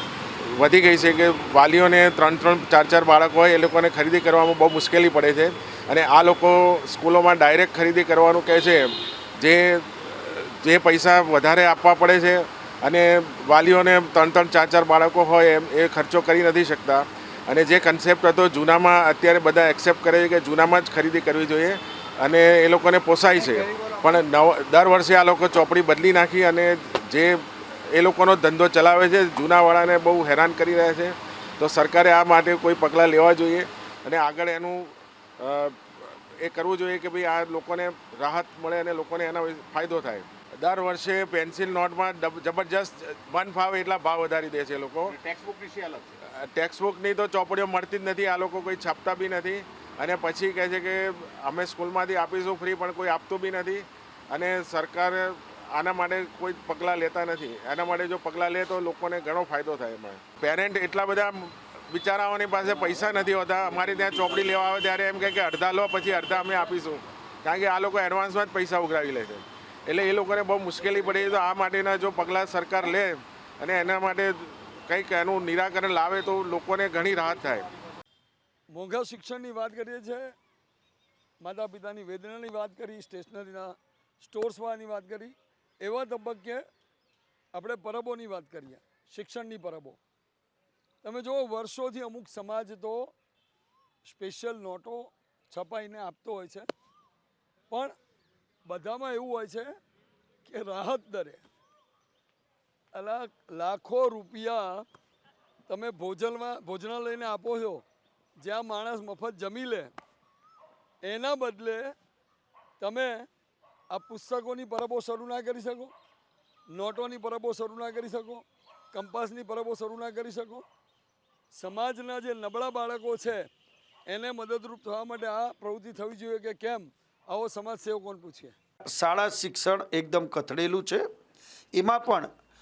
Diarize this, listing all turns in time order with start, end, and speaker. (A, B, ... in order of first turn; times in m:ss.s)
0:00.4-0:35.8 A
0:23.3-0:24.2 B
0:36.4-0:45.1 A
0:45.1-0:46.1 B
0:46.4-1:17.6 A
1:18.7-1:20.3 C
1:21.4-1:26.6 C
1:27.5-1:30.0 C
1:31.0-1:33.1 C
1:34.1-1:36.6 C
1:37.7-1:37.9 C
1:38.6-1:39.7 C
1:40.4-1:41.4 C
1:42.9-1:44.8 C
1:45.7-1:47.8 C
1:48.4-1:49.9 C
1:51.0-1:51.9 C
1:52.8-1:53.3 C
1:53.9-1:55.9 C
1:56.7-2:00.6 C
2:01.5-2:03.5 C
2:04.1-2:08.5 C
2:08.9-2:11.1 D
2:11.7-2:12.3 D